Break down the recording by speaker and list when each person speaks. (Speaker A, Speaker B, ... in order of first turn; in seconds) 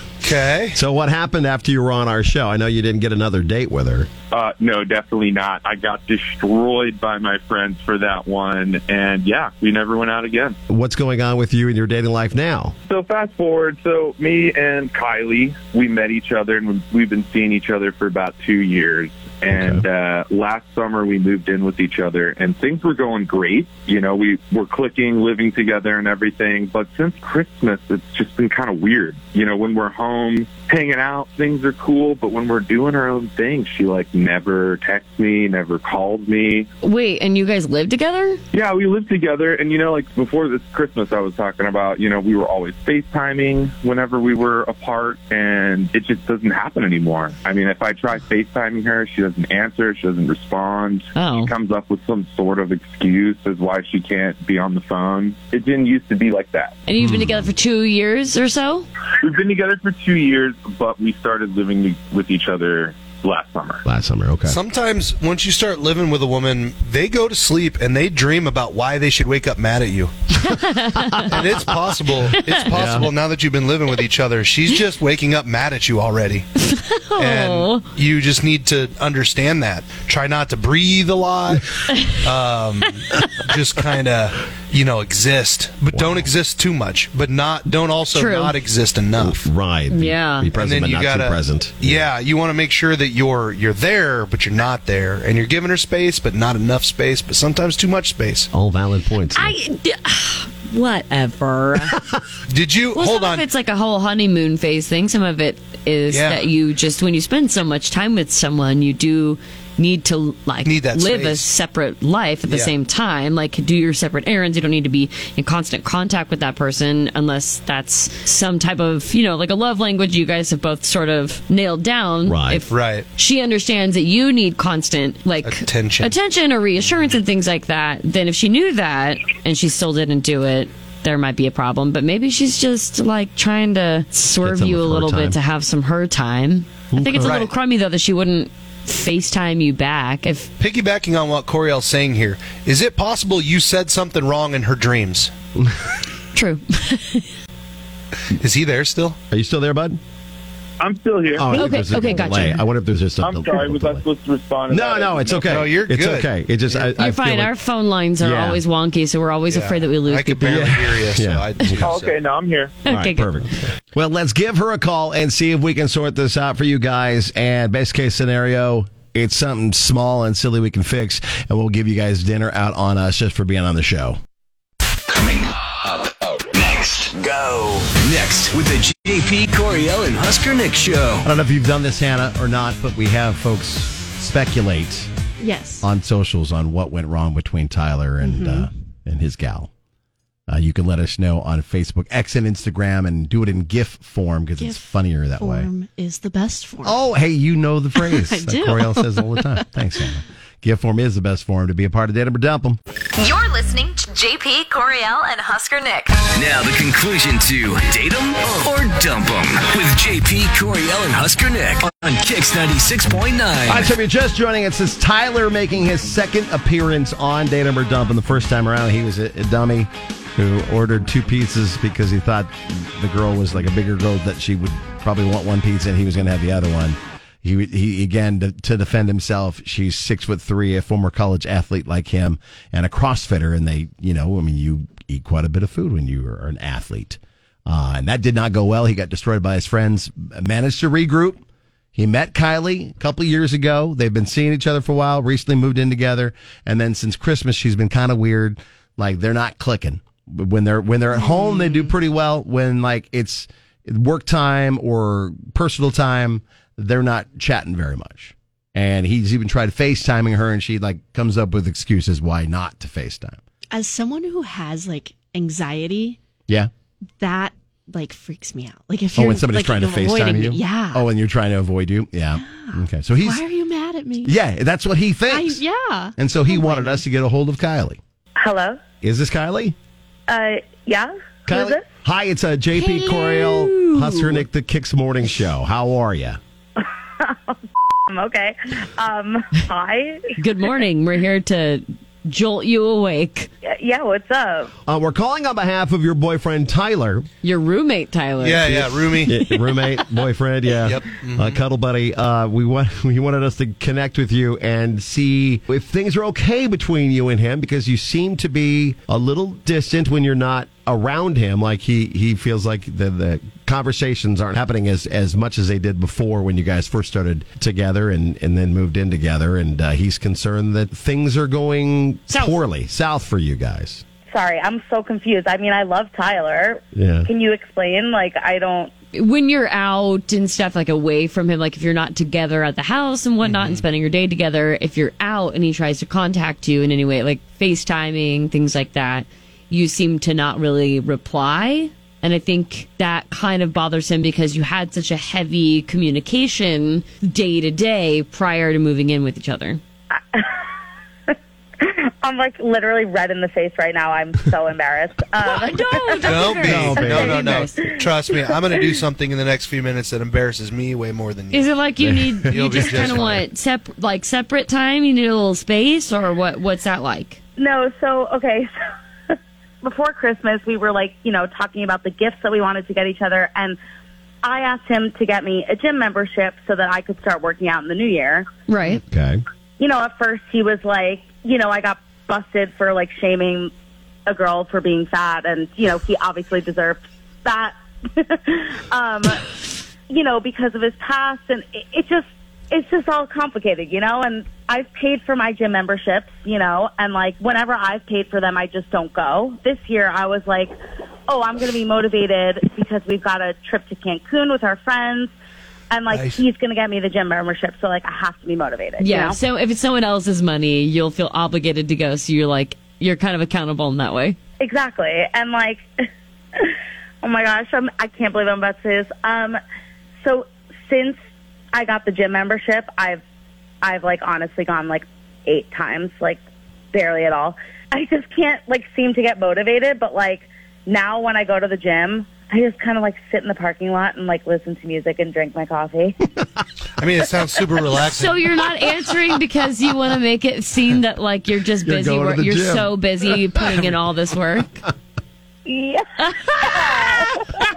Speaker A: 0.2-0.8, 64.4-70.2, 71.2-76.5, 77.1-89.5, 90.5-98.5, 102.5-103.4, 106.1-106.5, 110.6-111.5, 112.5-112.7, 122.7-123.0, 125.4-126.2, 137.2-137.5, 140.6-145.3, 148.3-149.2, 155.4-156.9, 159.5-162.2, 298.4-299.6, 300.8-301.6, 333.4-333.8, 356.2-361.7, 362.4-363.4, 406.1-406.4, 437.0-438.6
Speaker B: 0.7-4.1, 10.7-12.7, 19.5-19.8, 57.0-57.5, 63.9-64.6, 72.7-73.1, 85.9-86.3, 89.2-92.1, 98.5-99.5, 122.2-122.6, 134.4-135.4, 136.9-137.4, 149.3-150.0, 151.4-154.0, 154.7-157.5, 158.2-158.6, 160.4-161.9, 162.9-174.2, 181.2-185.1, 185.8-189.7, 190.5-195.7, 196.8-202.8, 213.7-241.4, 241.9-263.4, 269.1-273.4, 274.2-275.6, 276.2-278.0, 279.0-279.7, 281.5-286.4, 294.9-297.3, 298.6-324.0, 326.9-327.3, 356.6-357.4, 362.0-362.6, 379.1-379.4, 441.8-442.9
Speaker C: 4.3-10.6, 12.9-36.7, 38.5-56.7, 59.2-63.8, 150.8-151.6, 153.2-155.6, 161.8-162.8
Speaker D: 36.8-38.4, 51.1-51.5, 56.9-58.9, 70.4-71.4, 72.3-72.6, 76.6-77.8, 88.1-88.6, 89.9-90.5, 99.3-102.0, 102.9-140.5, 146.3-147.3, 151.5-152.6, 157.0-160.7, 162.8-163.3, 282.8-284.2, 290.4-293.5, 297.4-298.7, 322.3-322.6, 329.1-349.8, 355.4-357.8, 361.5-367.4, 378.7-379.0, 409.0-414.4, 438.0-444.8, 446.2-447.2
Speaker E: 175.1-181.2, 206.2-213.9
Speaker F: 185.4-185.8, 188.2-188.7, 194.6-197.0, 197.9-199.4, 263.7-266.2, 267.2-271.1, 272.3-274.3, 275.3-277.0
Speaker G: 203.2-206.2
Speaker H: 278.4-278.8, 280.3-281.8, 286.8-287.5, 288.1-290.3, 293.6-294.7, 324.3-328.9, 350.1-350.6, 351.3-356.4, 357.0-358.5, 367.6-368.7, 369.8-373.8, 374.4-378.4, 379.8-383.7, 384.3-389.5, 390.1-400.7, 401.3-405.3, 405.9-409.4, 414.6-415.8, 416.6-419.6, 420.2-421.1, 421.7-423.2, 423.8-426.4, 426.9-436.2, 445.6-447.5